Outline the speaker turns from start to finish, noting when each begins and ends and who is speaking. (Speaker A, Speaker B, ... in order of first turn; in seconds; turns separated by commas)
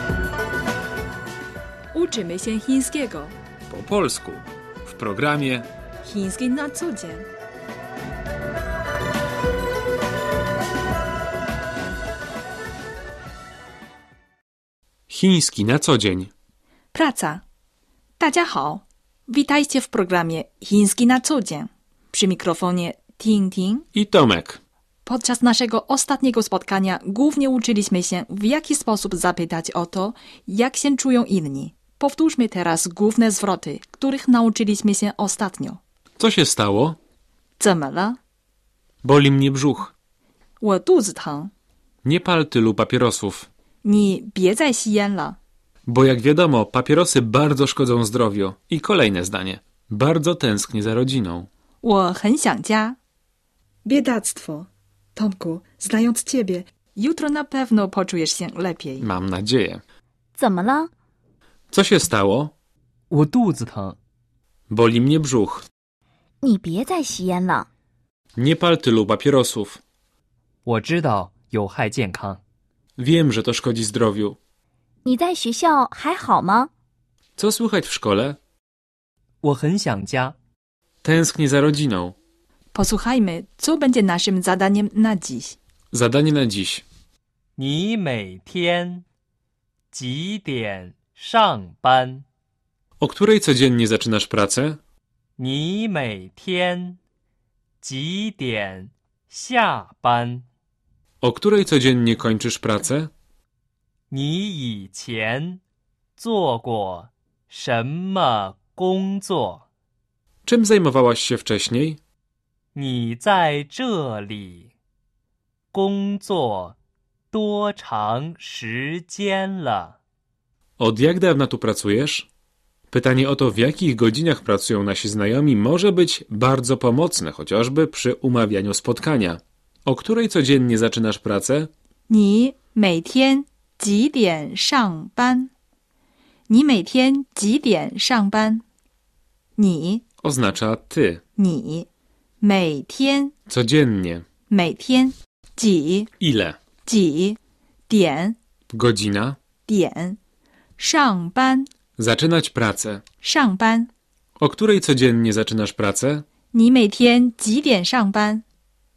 Speaker A: 1.9-3.4, Speaker B: 3.7-5.7, Speaker A: 6.0-7.3, Speaker B: 15.1-16.3, Speaker A: 16.9-17.4, Speaker A: 18.2-23.9, Speaker B: 23.9-24.6, Speaker A: 25.1-35.8, Speaker B: 36.2-37.0, Speaker A: 37.6-38.2, Speaker B: 39.0-39.9, Speaker A: 40.6-41.5, Speaker B: 42.0-43.5, Speaker A: 43.8-45.4, Speaker B: 45.9-51.5, Speaker A: 51.8-53.0, Speaker A: 53.8-59.1, Speaker B: 59.0-59.8, Speaker C: 60.4-60.9, Speaker B: 61.7-62.5, Speaker D: 63.1-64.0, Speaker B: 64.7-65.7, Speaker C: 66.4-67.7, Speaker B: 68.4-69.8, Speaker D: 70.6-72.4, Speaker B: 73.0-74.4, Speaker C: 75.0-76.7, Speaker B: 77.4-78.4, Speaker D: 79.4-80.3, Speaker B: 81.0-82.2, Speaker A: 82.7-85.6, Speaker B: 85.9-86.8, Speaker D: 87.6-89.0, Speaker D: 89.9-92.2, Speaker B: 93.0-94.8, Speaker D: 95.4-97.0, Speaker D: 97.8-100.5, Speaker B: 101.2-103.1, Speaker D: 104.1-105.6, Speaker D: 106.2-109.6, Speaker B: 110.5-112.0, Speaker D: 112.8-114.7, Speaker D: 115.7-116.8, Speaker D: 117.3-120.0, Speaker B: 120.8-122.3, Speaker B: 122.9-131.7, Speaker A: 132.1-135.5, Speaker A: 136.5-138.6, Speaker A: 139.6-140.0, Speaker B: 140.2-141.2, Speaker A: 141.4-141.9, Speaker A: 142.4-143.3, Speaker B: 143.5-144.2, Speaker A: 144.5-146.1, Speaker B: 146.2-146.6, Speaker A: 146.8-148.4, Speaker B: 148.7-149.4, Speaker A: 149.7-150.2, Speaker A: 150.8-151.7, Speaker B: 152.0-153.0, Speaker A: 153.2-153.9, Speaker B: 154.4-156.2, Speaker A: 156.5-158.4